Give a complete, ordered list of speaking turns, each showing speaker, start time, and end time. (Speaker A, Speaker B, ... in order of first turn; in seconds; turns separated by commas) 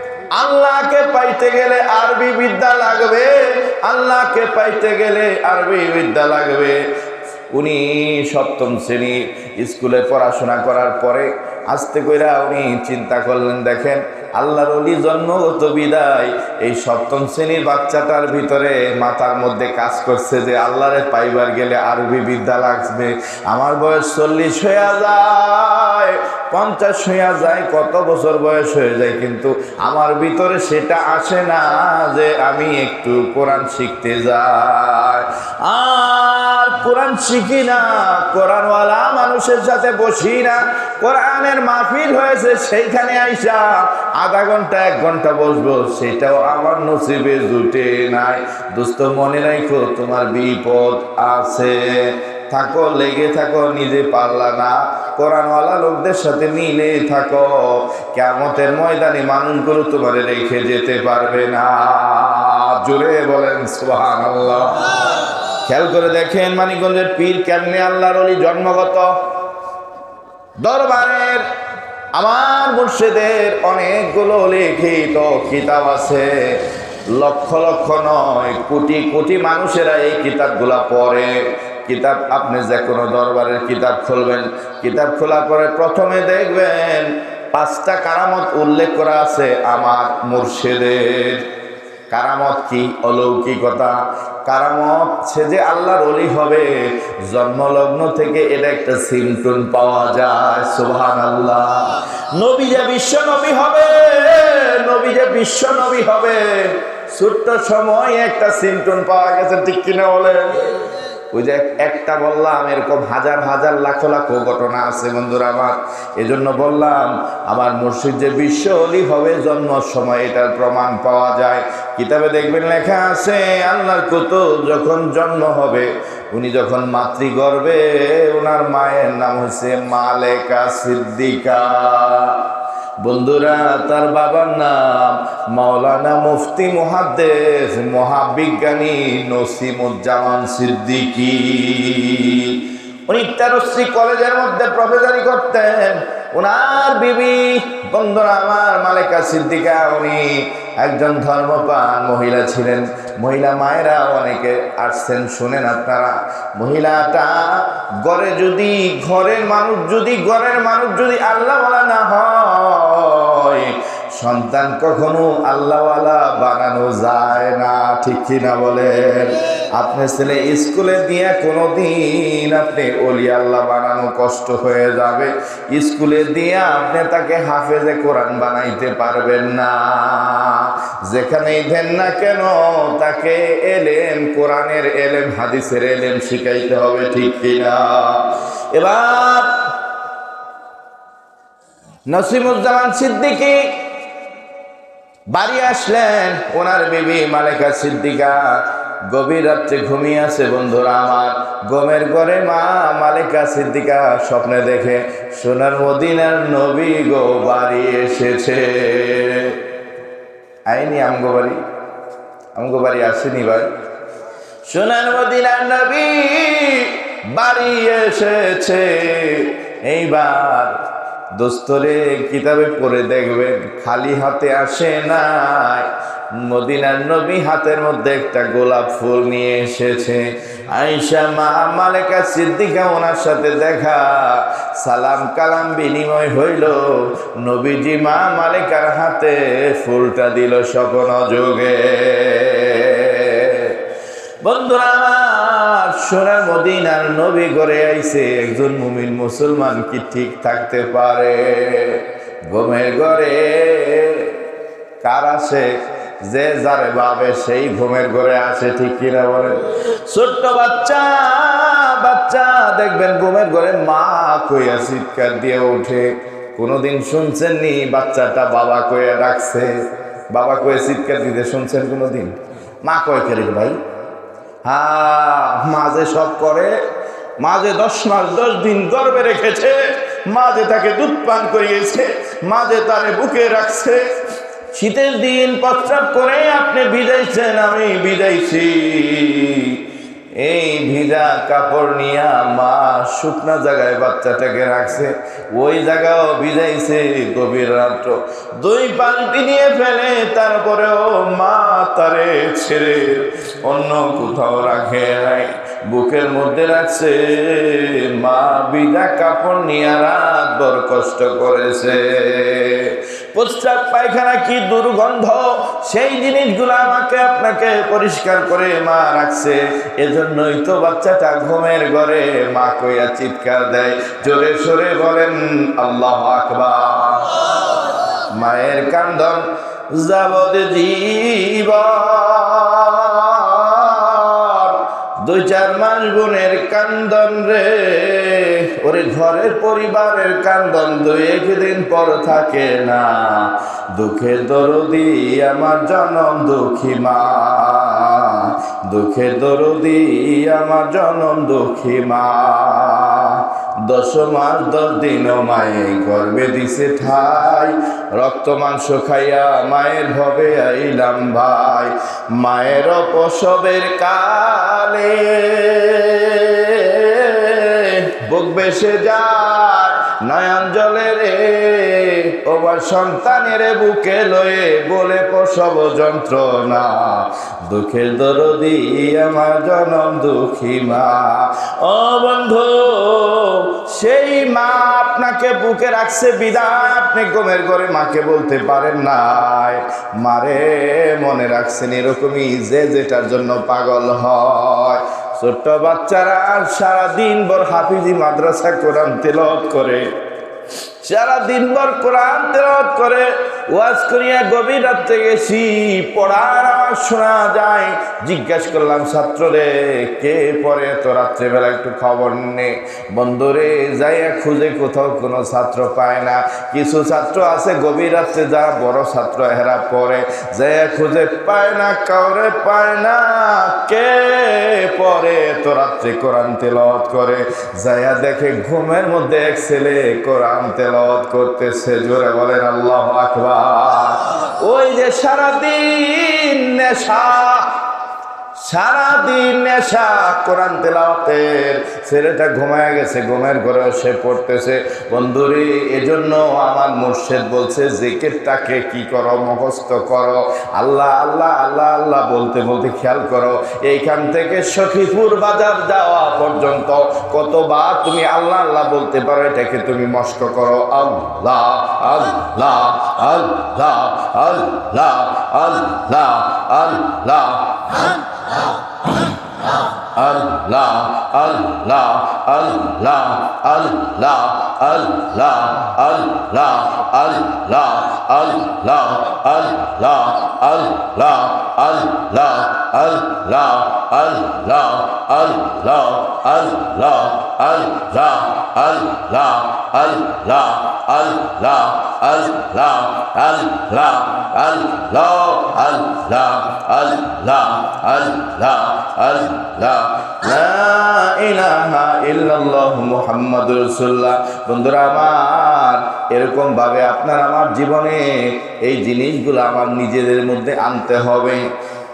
Speaker A: 0.3-6.8, Speaker A: 7.5-65.0, Speaker A: 65.7-69.1, Speaker A: 70.6-71.5, Speaker A: 72.2-91.5, Speaker A: 92.1-132.5, Speaker A: 133.0-189.7, Speaker A: 192.1-193.9, Speaker A: 195.3-209.6, Speaker A: 210.7-211.6, Speaker A: 212.6-213.7, Speaker A: 214.7-220.8, Speaker A: 221.3-243.8, Speaker A: 244.4-254.4, Speaker A: 255.0-273.8, Speaker A: 274.6-276.8, Speaker A: 277.4-284.1, Speaker A: 284.7-289.8, Speaker A: 290.4-400.1, Speaker A: 401.0-437.7, Speaker A: 438.6-468.5, Speaker A: 469.0-511.6